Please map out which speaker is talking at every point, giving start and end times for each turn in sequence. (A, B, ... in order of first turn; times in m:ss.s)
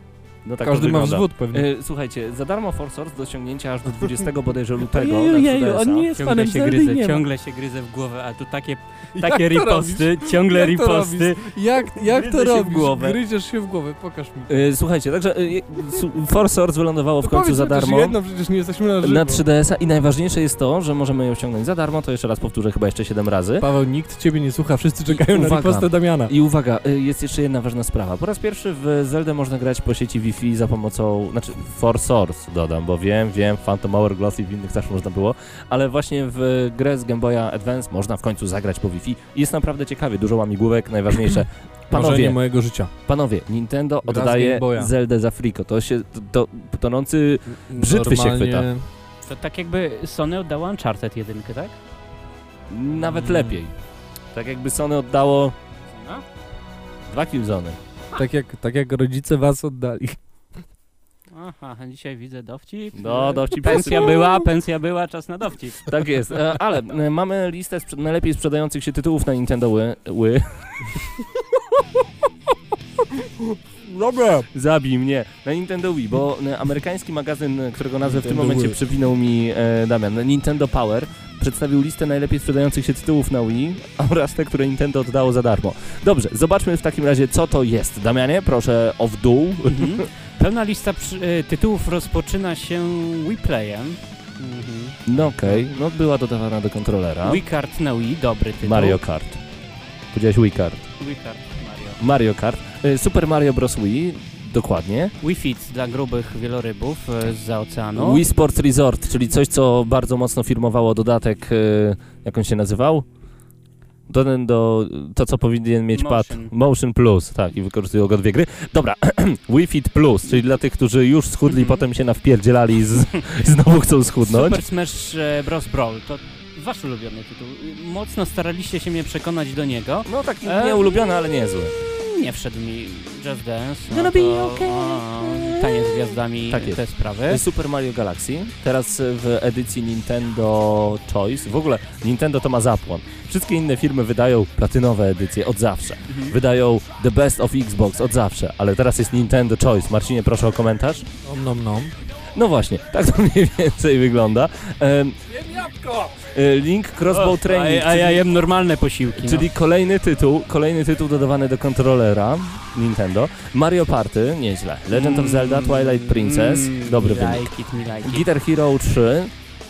0:00.4-0:06.1 A
0:00.6-0:01.6 B
0:04.9-0:07.2 B
0:06.1-0:13.2 C
0:09.1-0:14.6 B
0:14.5-0:18.2 A
0:17.2-0:19.4 B
0:19.0-0:23.6 A
0:23.6-0:26.3 B
0:25.3-0:42.4 A
0:41.9-0:42.9 B
0:43.0-0:48.6 A
0:44.0-0:44.9 B
0:47.7-0:48.8 B
0:49.2-0:51.8 C
0:52.7-0:53.7 A
0:53.2-0:53.6 B
0:54.3-0:55.6 A
0:55.9-0:56.2 C
0:57.1-0:57.8 A
0:58.1-1:00.6 B
1:01.3-1:05.9 C
1:03.0-1:04.4 A
1:05.9-1:10.9 A
1:13.2-1:14.4 B
1:14.5-1:30.0 A
1:18.0-1:18.8 B
1:29.7-1:35.7 C
1:35.0-1:37.4 A
1:37.2-1:39.0 C
1:38.6-1:39.4 A
1:40.1-1:40.8 A
1:41.0-1:42.0 C
1:42.0-1:45.1 A
1:45.2-1:48.2 C
1:48.0-1:53.0 A
1:54.1-2:04.6 A
1:55.9-1:56.5 C
2:01.5-2:01.8 C
2:04.2-2:11.0 C
2:10.0-2:11.7 A
2:11.8-2:17.4 C
2:13.9-2:31.1 A
2:26.1-2:26.3 C
2:31.2-2:32.0 B
2:32.4-2:35.2 A
2:35.3-2:36.3 B
2:36.3-2:38.2 A
2:37.1-2:39.5 C
2:39.2-2:49.3 A
2:44.9-2:48.2 C